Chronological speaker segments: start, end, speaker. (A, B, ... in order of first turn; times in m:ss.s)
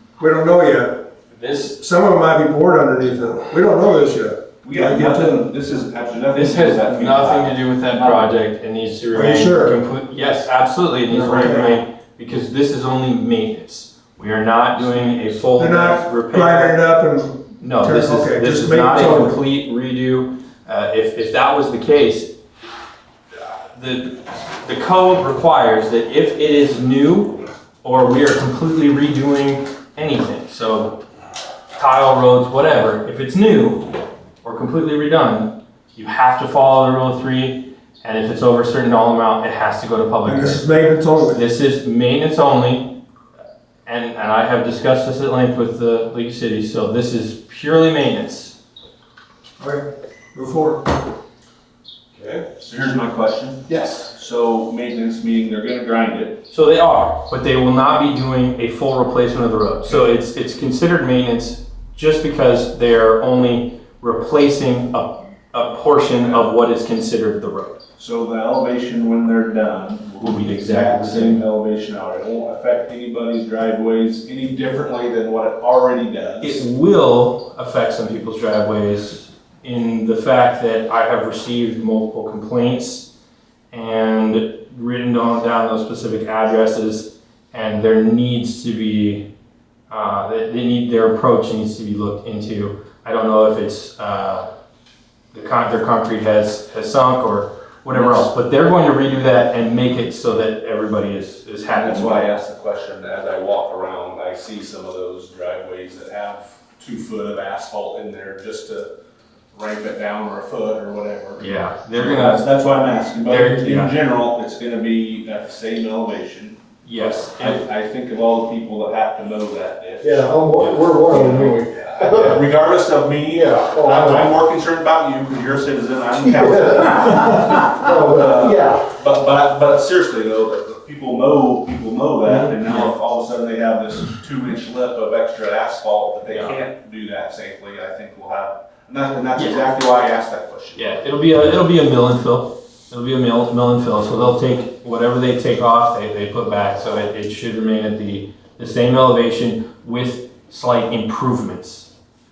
0:00.2-0:01.0 A
0:01.3-0:01.8 B
0:01.8-0:05.3 A
0:04.6-0:08.3 C
0:06.3-0:16.8 B
0:09.1-0:09.8 A
0:11.1-0:11.8 A
0:15.6-0:19.4 A
0:17.6-0:22.3 B
0:23.7-0:31.0 B
0:31.7-0:33.9 B
0:34.4-0:40.6 B
0:40.2-0:41.4 A
0:41.3-0:43.0 B
0:43.8-0:48.5 B
0:49.6-0:50.8 A
0:52.6-0:56.4 C
0:56.5-1:07.8 B
1:08.0-1:16.6 C
1:10.2-1:11.4 B
1:16.4-1:23.1 B
1:23.7-1:29.2 B
1:29.9-1:34.5 B
1:35.3-1:42.3 B
1:37.9-1:38.3 C
1:41.8-1:48.9 C
1:49.5-1:56.6 C
1:51.4-1:52.4 B
1:53.2-1:53.9 B
1:56.8-1:57.6 B
1:57.4-2:00.3 C
2:00.0-2:02.4 D
2:00.6-2:01.5 B
2:01.1-2:20.9 C
2:03.3-2:04.3 D
2:06.2-2:08.8 D
2:12.6-2:12.9 B
2:19.3-2:19.6 B
2:20.7-2:31.9 B